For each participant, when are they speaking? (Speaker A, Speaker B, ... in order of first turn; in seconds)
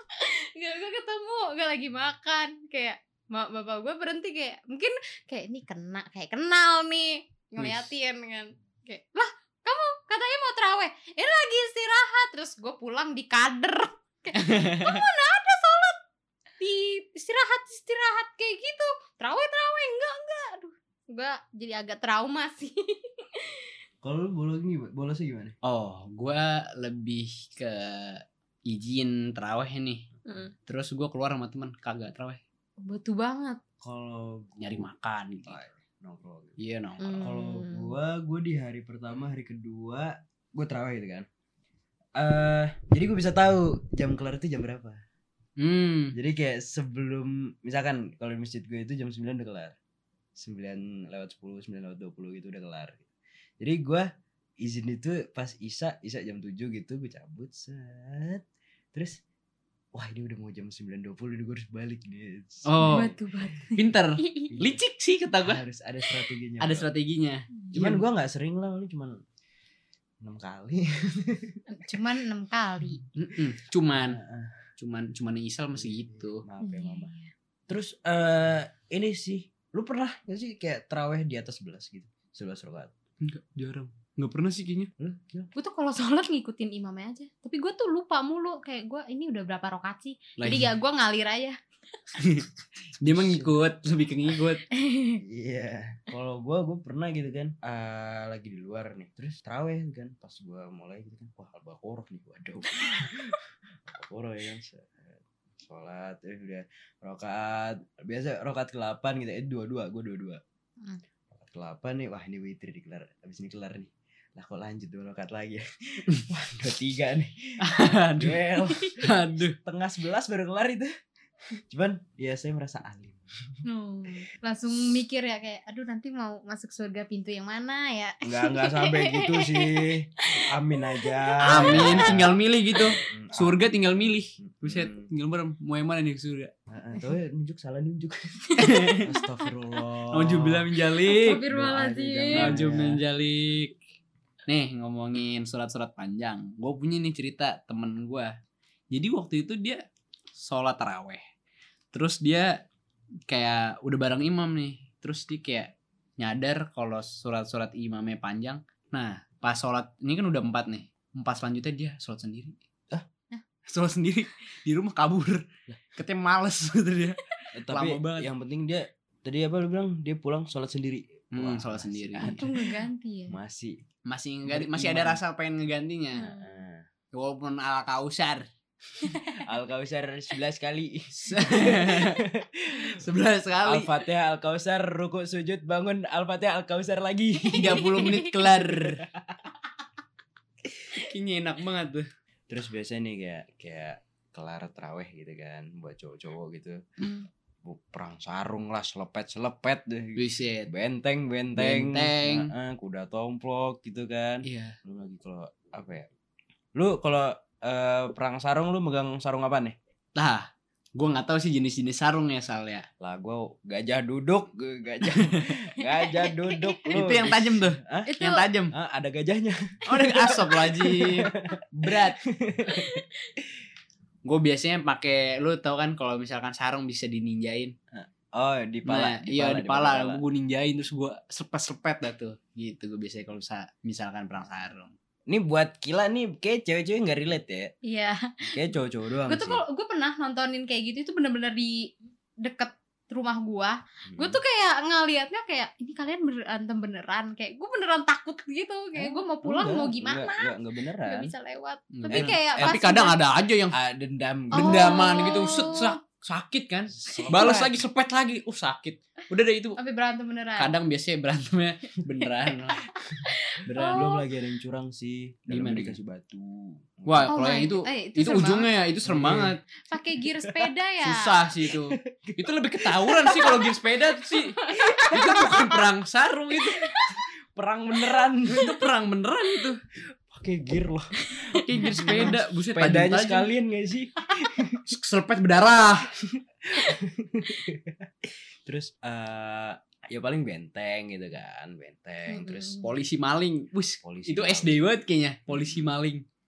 Speaker A: 0.1-16.0, 16.6-23.7, 30.2-30.5, 32.8-33.6, 37.0-37.9, 62.8-64.5, 71.7-73.0, 76.6-77.3, 85.5-91.6, 94.7-95.2, 123.6-132.3, 138.6-139.1, 141.0-142.6, 172.2-173.4, 176.1-176.6, 179.0-179.4, 187.5-188.5, 215.8-216.9, 218.1-218.4, 222.7-223.3, 237.8-238.6, 239.3-253.2, 254.5-255.9, 257.1-257.6, 259.8-260.7, 262.2-264.3, 267.3-268.7, 269.9-271.3, 274.6-275.2, 281.8-282.4, 292.3-292.9
Speaker B: 7.6-7.9, 14.3-15.0, 25.6-30.1, 30.6-32.4, 34.6-35.6, 36.6-37.3, 45.6-46.1, 62.6-63.1, 63.7-65.6, 66.6-68.0, 73.1-74.2, 74.8-76.4, 83.2-84.9, 90.4-90.7, 92.2-92.5, 93.0-94.6, 117.6-119.6, 131.4-136.5, 138.6-139.1, 140.1-143.8, 144.5-148.3, 148.9-149.8, 150.3-151.3, 151.9-152.7, 153.3-162.6, 163.7-168.3, 171.3-172.5, 174.1-176.3, 177.1-178.5, 181.2-182.2, 182.9-184.0, 187.5-189.1, 190.7-192.1, 200.2-200.7, 201.5-202.5, 204.4-204.8, 210.2-212.9, 216.9-218.7, 219.8-222.2, 224.2-227.7, 228.8-234.9, 251.9-253.8, 254.5-259.8, 260.6-262.8, 263.6-264.1, 265.5-266.0, 267.0-269.6, 271.0-276.9, 278.4-279.8, 281.5-283.5, 284.9-286.1, 292.8-296.2
Speaker C: 24.0-25.5, 33.8-34.9, 35.4-36.6, 37.2-41.3, 42.2-45.0, 46.1-49.8, 50.4-53.0, 53.6-54.1, 54.6-59.2, 59.9-63.2, 64.5-64.8, 65.4-66.9, 67.7-69.2, 70.2-71.6, 73.9-74.6, 75.7-77.1, 77.7-82.9, 85.0-85.5, 93.0-93.6, 95.2-110.4, 111.3-120.9, 121.6-123.6, 128.2-135.1, 136.7-143.0, 167.5-173.8, 174.4-175.2, 176.2-176.8, 179.3-183.0, 183.6-189.5, 192.5-196.8, 197.6-206.1, 206.7-209.8, 213.0-218.1, 218.7-223.1, 227.9-230.2, 235.3-237.7, 238.4-239.6, 244.1-244.4, 248.9-251.3, 252.1-252.8, 253.7-255.8, 256.9-257.8, 263.0-267.3, 269.0-269.5, 270.4-270.7, 271.6-273.7, 274.8-275.8, 276.8-278.8, 280.2-284.8, 286.2-292.8, 294.0-294.8, 295.5-295.9